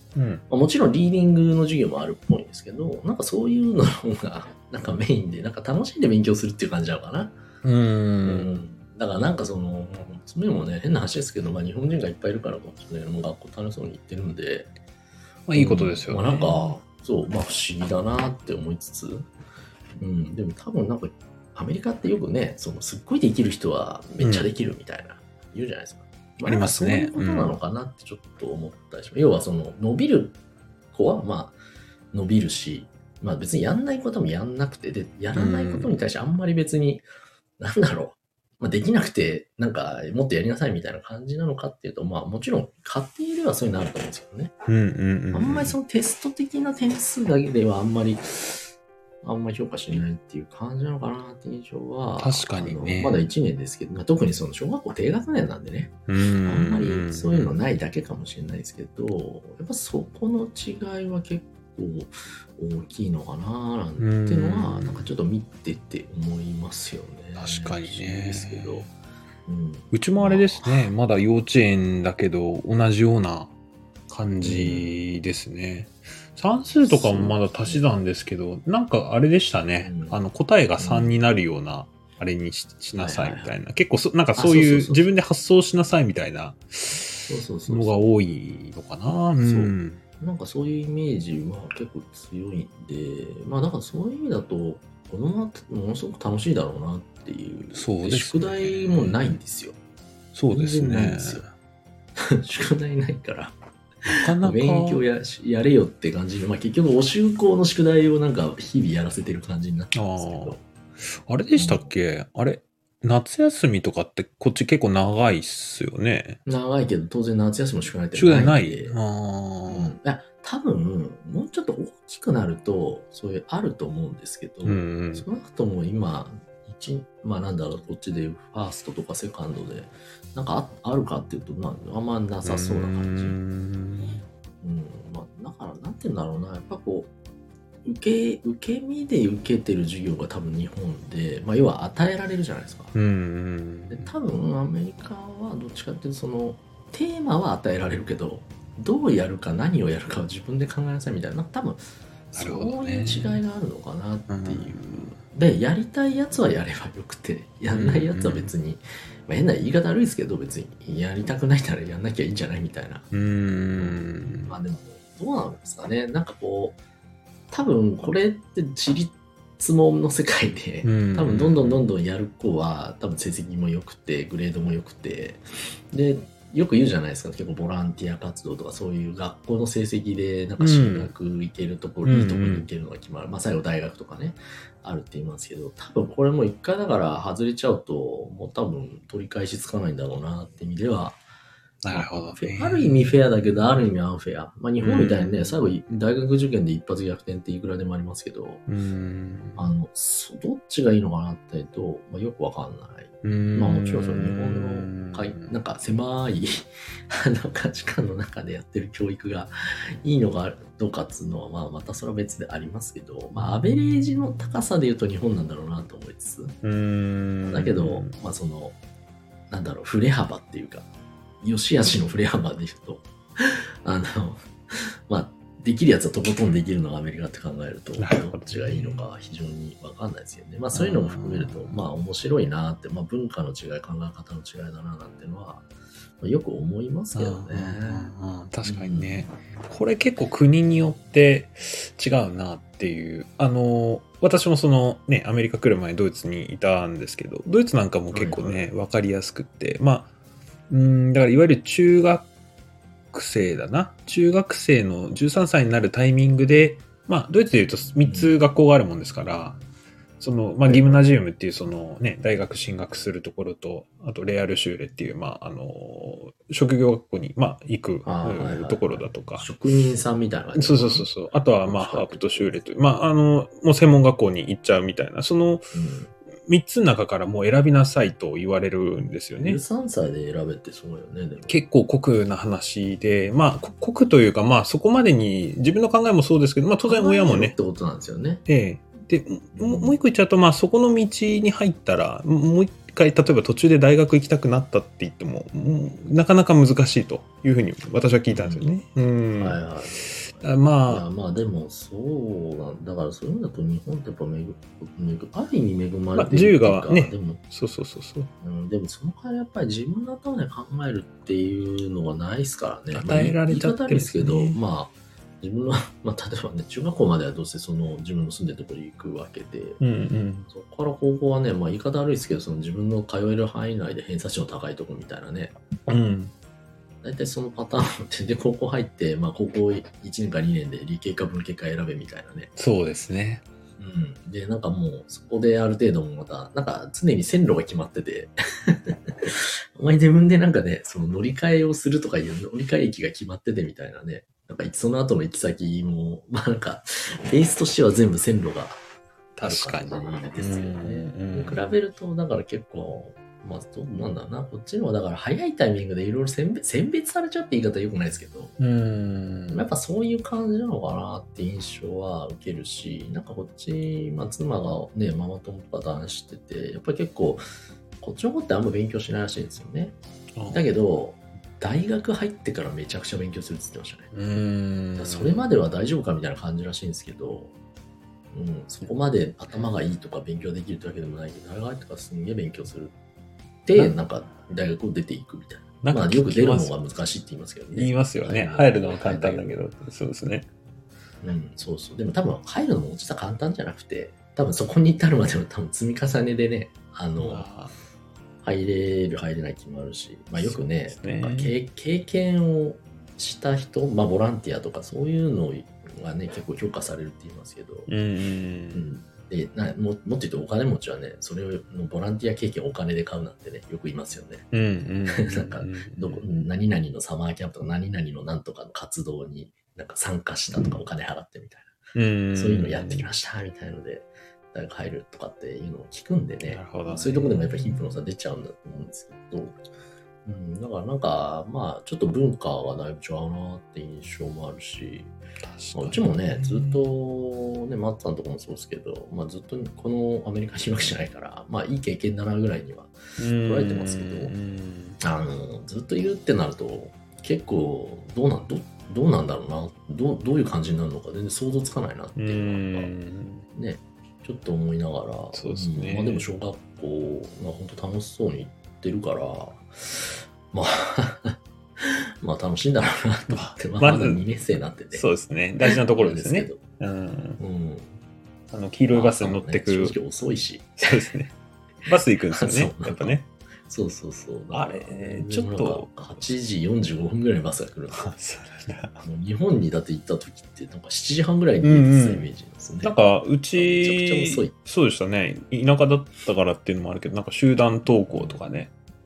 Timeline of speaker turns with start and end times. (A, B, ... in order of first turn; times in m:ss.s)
0:00.2-0:00.4 A
0:00.5-0:07.4 B
0:07.6-0:08.6 A
0:08.2-0:14.7 B
0:15.5-0:16.8 A
0:15.6-0:19.3 B
0:20.0-0:30.4 B
0:24.2-0:24.5 A
0:26.4-0:27.6 A
0:30.9-0:31.6 B
0:32.1-0:37.1 B
0:35.3-0:35.9 A
0:37.6-0:44.5 B
0:44.7-0:45.8 A
0:45.3-0:48.7 B
0:49.2-1:08.9 B
0:52.2-0:53.3 A
0:56.1-0:57.6 A
1:04.0-1:05.1 A
1:07.4-1:08.9 A
1:09.5-1:10.9 B
1:09.9-1:13.5 A
1:14.1-1:30.0 A
1:14.4-1:14.9 B
1:16.8-1:17.9 B
1:19.8-1:20.2 B
1:20.8-1:21.2 B
1:23.0-1:23.5 B
1:24.4-1:25.1 B
1:27.3-1:28.0 B
1:29.4-1:39.8 B
1:37.7-1:39.4 A
1:40.4-1:41.5 A
1:40.5-1:41.4 B
1:42.3-1:43.6 B
1:44.1-1:45.0 A
1:44.2-1:50.6 B
1:49.9-1:50.6 A
1:51.3-1:56.4 A
1:51.5-1:51.9 B
1:56.5-1:59.0 B
1:58.1-2:00.0 A
1:59.7-2:13.4 B
2:04.6-2:05.3 A
2:12.4-2:14.2 A
2:14.6-2:17.1 B
2:17.8-2:23.0 B
2:22.9-2:24.1 A
2:23.9-2:43.1 B
2:32.4-2:33.4 A
2:34.3-2:35.2 A
2:37.7-2:38.5 A
2:43.1-2:44.6 A
2:43.8-2:46.8 B
2:47.5-3:11.2 B
2:50.8-2:51.9 A
3:00.6-3:01.1 A
3:02.0-3:02.7 A
3:11.8-3:13.1 A
3:11.9-3:18.6 B
3:14.8-3:15.6 A
3:18.7-3:19.7 A
3:19.6-3:36.6 B
3:23.2-3:25.5 A
3:36.6-3:38.2 A
3:37.5-3:38.8 B
3:39.5-3:40.9 B
3:41.4-3:44.4 B
3:45.1-3:55.7 B
3:48.0-3:49.1 A
3:50.7-3:51.8 A
3:56.2-3:58.1 B
3:57.2-4:10.1 A
3:58.6-3:59.3 B
4:08.1-4:08.7 B
4:10.7-4:12.3 A
4:13.1-4:19.6 A
4:18.0-4:18.3 B
4:20.2-4:29.5 A
4:20.7-4:21.1 B
4:28.0-4:31.1 B
4:30.6-4:35.7 A
4:31.6-4:32.6 B
4:35.7-4:36.1 B
4:36.5-4:39.6 A
4:39.4-4:41.6 B
4:41.5-4:47.6 A
4:46.8-4:48.4 B
4:48.5-5:01.1 A
4:49.6-4:50.0 B
4:58.3-4:58.7 B
4:59.4-5:07.4 B
5:06.1-5:08.3 A
5:08.4-5:19.8 B
5:12.9-5:14.6 A
5:19.8-5:20.5 A
5:20.5-5:25.5 B
5:25.9-5:26.3 A
5:27.0-5:32.5 B
5:32.6-5:33.4 A
5:33.8-5:48.8 B
5:49.4-5:51.7 A
5:49.4-5:58.6 B
5:58.6-5:59.7 A
5:59.5-6:07.4 B
6:08.0-6:10.0 B
6:10.4-6:10.6 A
6:10.5-6:14.1 B
6:14.1-6:15.5 A
6:15.0-6:17.5 B
6:18.3-6:22.9 B
6:23.7-6:29.6 B
6:25.8-6:26.8 A
6:27.7-6:30.5 A
6:31.2-6:37.5 B
6:37.2-6:37.8 A
6:38.4-6:47.9 B
6:40.4-6:41.6 A
6:47.9-6:48.9 A
6:48.7-6:54.5 B
6:54.5-6:56.2 A
6:55.1-7:01.7 B
7:02.0-7:03.1 A
7:02.3-7:09.6 B
7:06.5-7:07.8 A
7:10.2-7:15.1 B
7:15.4-7:16.9 A
7:15.8-7:24.3 B
7:23.2-7:25.0 A
7:25.0-7:32.9 B
7:32.2-7:33.5 A
7:33.5-7:45.1 B
7:35.3-7:36.3 A
7:43.3-7:44.3 A
7:44.9-7:47.4 A
7:45.6-7:46.6 B
7:47.4-7:47.9 B
7:48.5-7:50.0 A
7:48.9-7:50.9 B
7:50.8-7:51.3 A
7:51.9-7:53.3 A
7:52.3-7:58.1 B
7:54.5-7:56.3 A
7:57.9-7:59.0 A
7:59.0-8:03.0 B
8:01.6-8:02.3 A
8:02.8-8:08.7 A
8:03.5-8:04.6 B
8:08.0-8:08.4 B